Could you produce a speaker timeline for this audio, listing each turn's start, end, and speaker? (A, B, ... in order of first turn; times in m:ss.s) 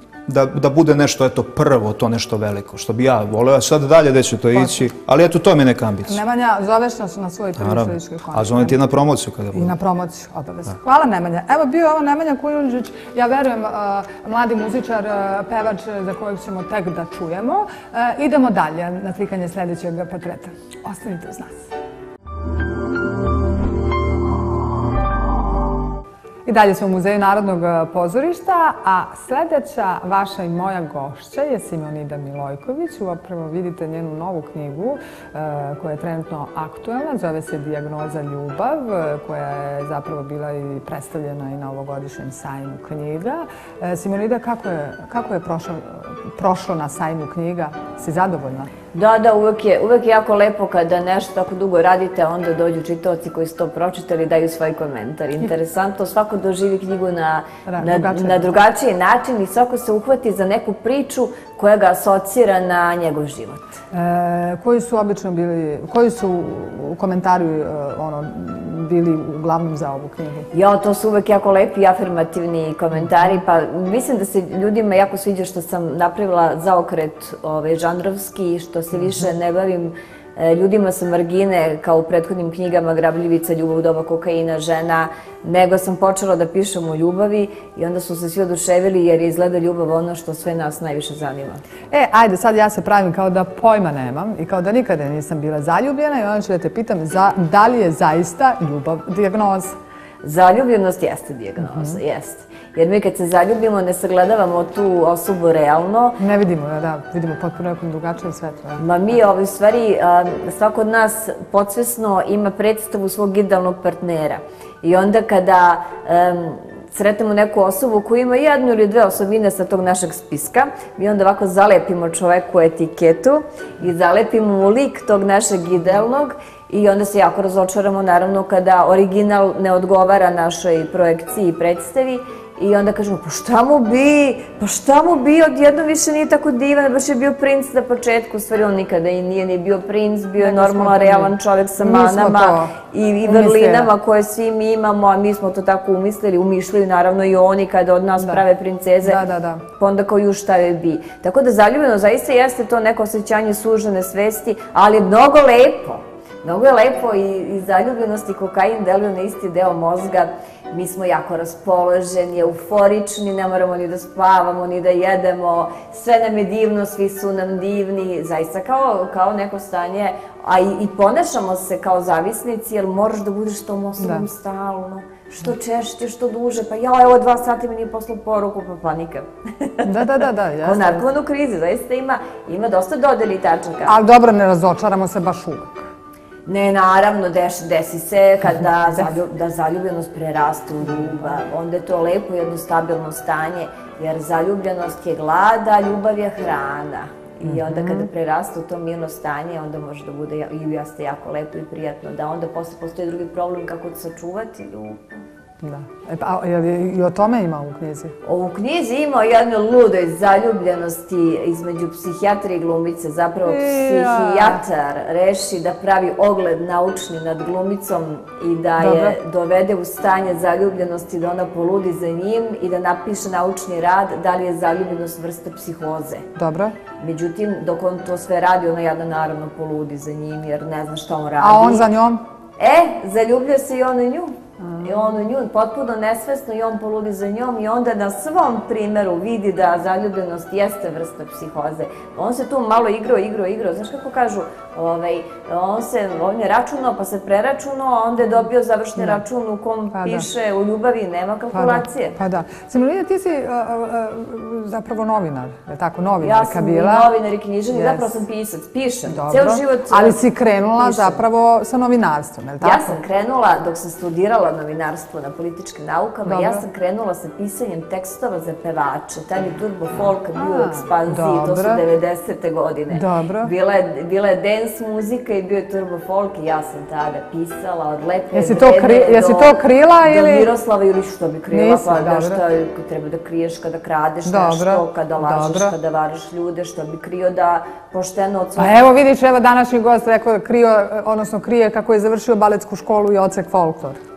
0:00.2-0:06.2 A
0:06.0-0:08.8 B
0:07.6-0:09.7 A
0:09.5-0:21.7 B
0:26.4-0:48.7 B
0:48.9-1:03.6 C
0:57.6-0:58.6 B
1:03.9-1:10.5 B
1:10.5-1:31.6 C
1:31.9-1:39.8 B
1:40.2-1:46.2 C
1:41.7-1:42.0 B
1:46.2-1:48.8 B
1:48.8-2:29.2 C
2:20.4-2:22.7 B
2:23.2-2:23.9 B
2:29.0-2:29.6 B
2:29.8-3:04.0 C
2:54.0-2:54.2 B
2:59.8-3:01.0 B
3:03.8-3:05.9 B
3:06.4-3:25.2 C
3:17.4-3:18.1 B
3:25.6-3:28.1 B
3:28.2-3:46.2 C
3:33.4-3:34.6 B
3:38.8-3:39.2 B
3:46.4-3:46.7 B
3:47.0-3:51.9 C
3:51.4-3:52.2 B
3:52.6-4:12.2 C
3:54.6-3:54.9 B
4:09.9-4:10.3 B
4:11.5-4:17.1 B
4:16.2-4:21.2 C
4:17.7-4:18.1 B
4:19.1-4:23.0 B
4:22.6-4:48.8 C
4:26.2-4:26.6 B
4:30.3-4:31.8 B
4:32.9-4:33.5 B
4:38.3-4:40.5 B
4:41.5-4:42.4 B
4:44.2-4:45.7 B
4:48.6-4:54.0 B